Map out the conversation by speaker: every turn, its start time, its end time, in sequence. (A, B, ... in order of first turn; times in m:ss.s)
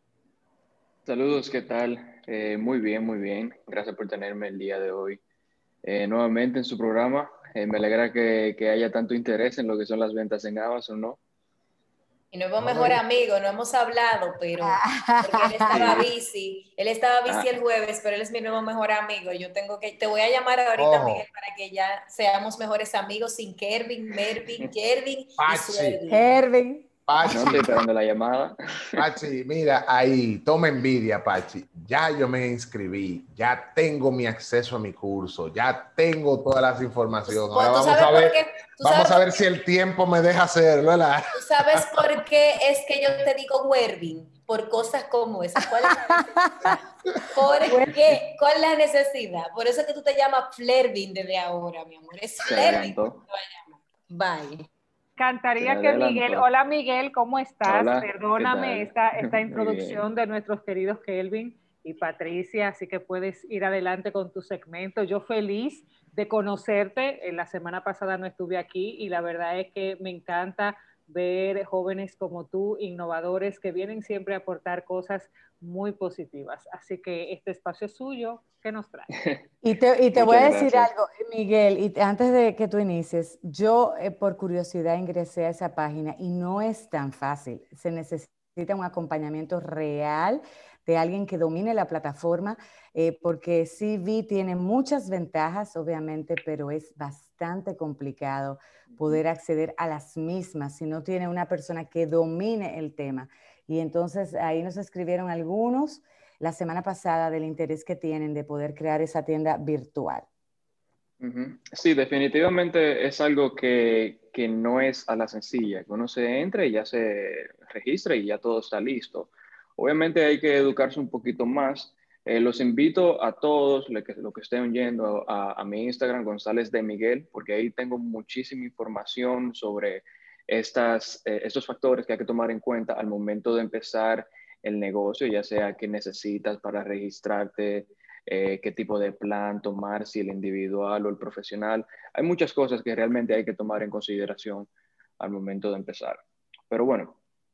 0:01.0-0:05.2 A
0:05.8-0:11.2 A
0:12.3-0:26.2 B
0:12.6-0:13.0 C
0:14.6-0:16.0 D
0:15.7-0:16.1 A
0:20.8-0:21.2 C
0:25.4-0:26.0 C
0:26.1-0:27.5 D
0:27.1-0:27.8 C
0:27.3-0:29.1 A
0:29.0-0:42.1 C
0:37.3-0:39.4 B
0:41.4-0:54.7 B
0:46.1-0:46.8 D
0:47.6-0:48.0 D
0:52.4-0:53.2 A
0:55.2-1:19.1 E
0:55.6-0:56.4 A
0:57.6-1:00.0 A
1:19.1-1:19.4 A
1:19.6-1:50.3 D
1:20.1-1:20.9 A
1:38.9-1:39.2 A
1:51.2-2:24.7 A
2:25.2-2:27.2 A